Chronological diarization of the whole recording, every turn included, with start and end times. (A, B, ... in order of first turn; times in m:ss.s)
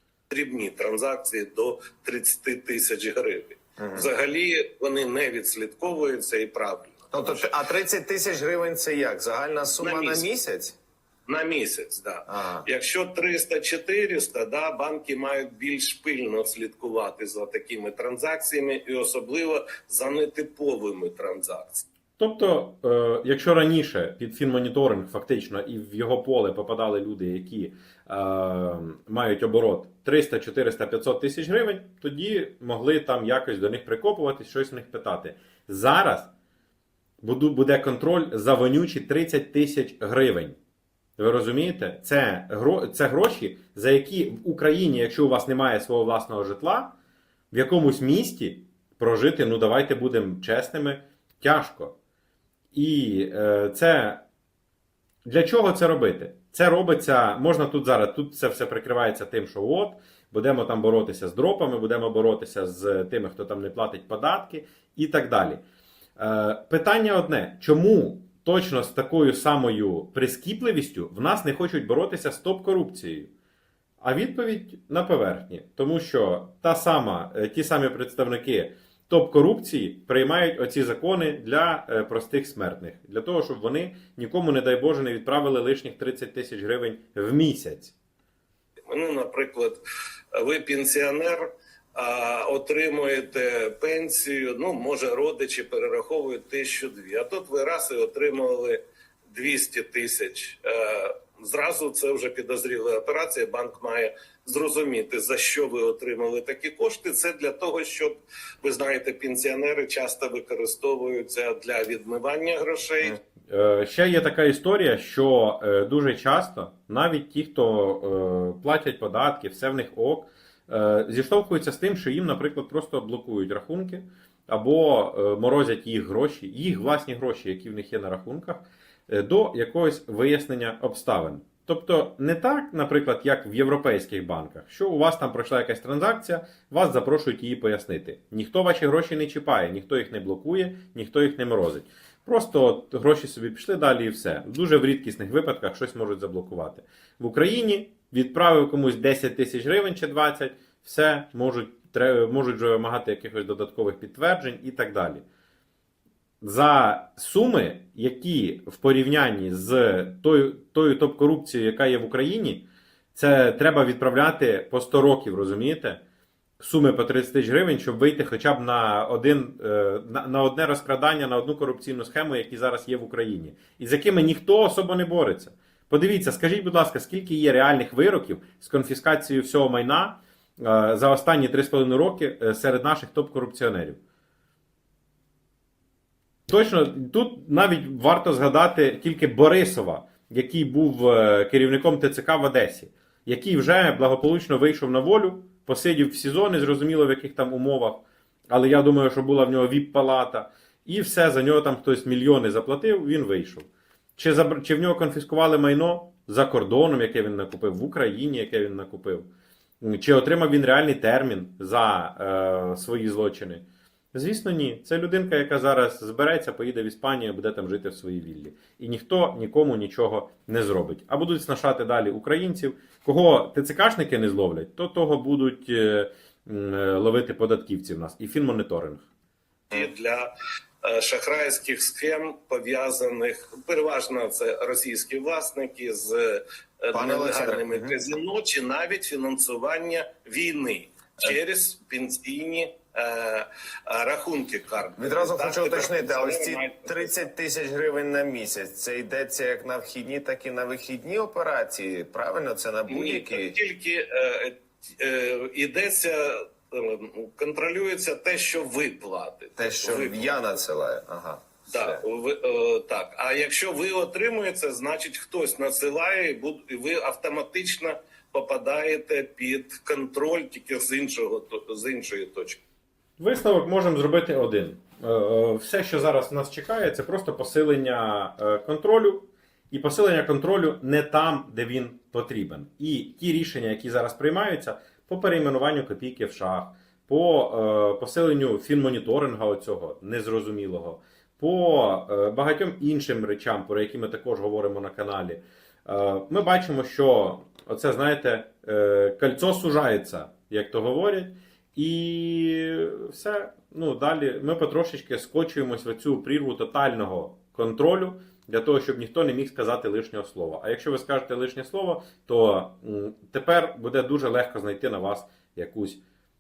0:00.3-0:07.6 A
0:03.8-0:04.1 B
0:07.1-0:10.8 B
0:09.8-0:10.3 A
0:11.3-0:21.8 A
0:12.3-0:12.6 B
0:22.2-0:36.3 C
0:37.2-0:40.6 C
0:41.2-0:46.9 C
0:47.5-0:52.0 C
0:52.7-0:54.2 C
0:55.2-1:05.6 C
1:06.2-1:13.3 C
1:14.0-1:28.0 C
1:28.9-1:29.8 A
1:30.3-1:53.2 A
1:53.5-2:35.2 C
2:36.4-2:46.0 C
2:46.6-3:04.0 C
3:06.5-3:29.3 C
3:29.8-3:49.1 C
3:49.7-3:50.3 A
3:50.8-4:07.3 A
3:56.9-3:58.0 B
4:05.0-4:13.6 B
4:12.9-4:20.4 A
4:19.6-4:22.0 B
4:21.7-4:32.6 A
4:33.2-5:16.0 C